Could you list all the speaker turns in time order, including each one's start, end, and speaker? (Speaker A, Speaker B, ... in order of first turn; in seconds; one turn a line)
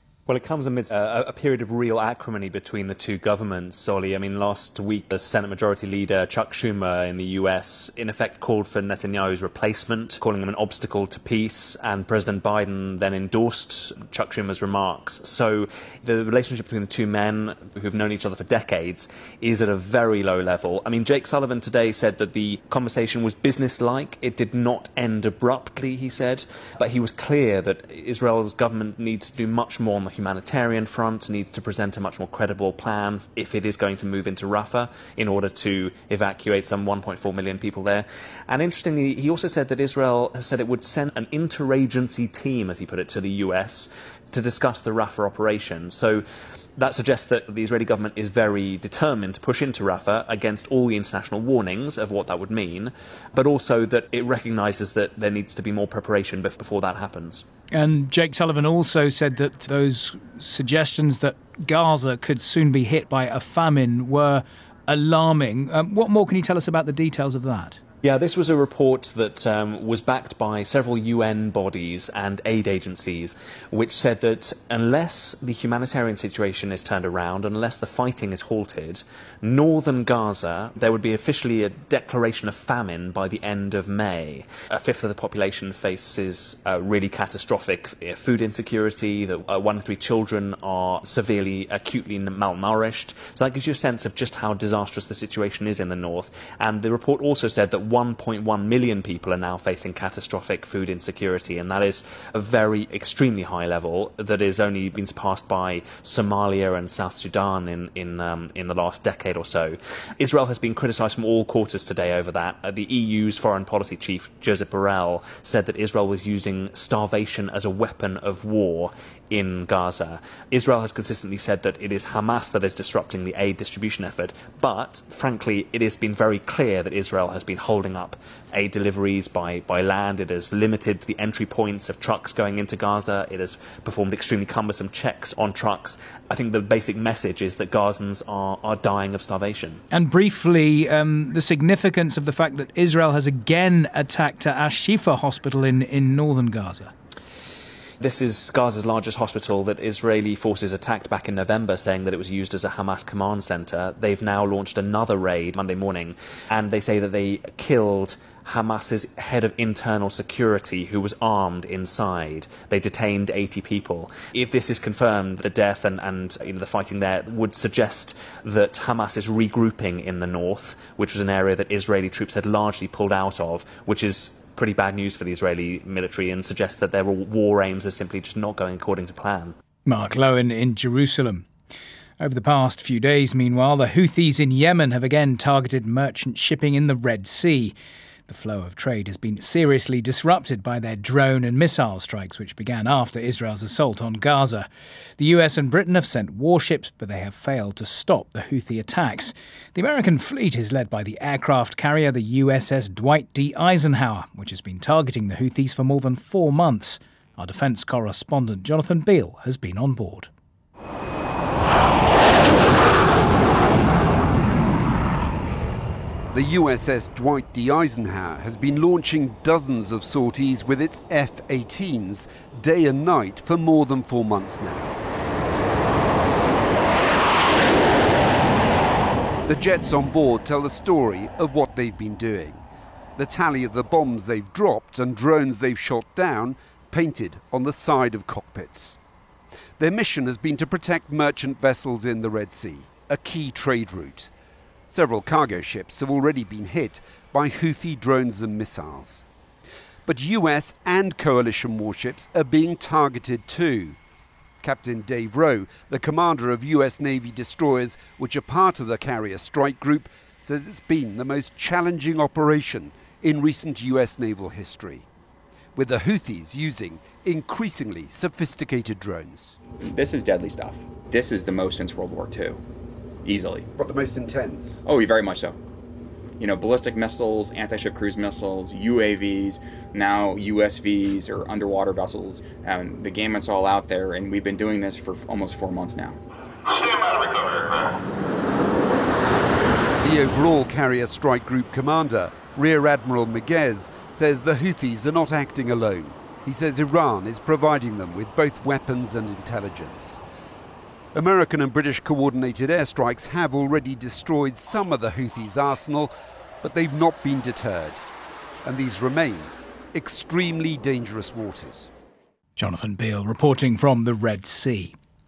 Speaker A: 0.3-46.2
Speaker A: 46.8-57.4
Speaker B: 57.7-67.8
Speaker A: 68.0-139.8
Speaker B: 139.9-146.9
Speaker A: 148.0-179.5
Speaker B: 179.8-181.5
Speaker B: 182.2-187.7
Speaker B: 188.3-194.7
Speaker B: 195.2-210.3
Speaker C: 216.3-224.9
Speaker C: 229.5-232.6
Speaker C: 233.2-239.0
Speaker C: 239.8-244.3
Speaker C: 244.9-249.2
Speaker C: 250.1-254.0
Speaker C: 254.6-265.0
Speaker C: 265.8-269.6
Speaker D: 269.8-272.6
Speaker D: 273.2-273.7
Speaker C: 273.8-274.8
Speaker D: 274.9-275.6
Speaker D: 276.4-286.2
Speaker C: 290.0-300.2
Speaker C: 301.1-308.0
Speaker C: 308.6-311.9
Speaker B: 312.6-314.9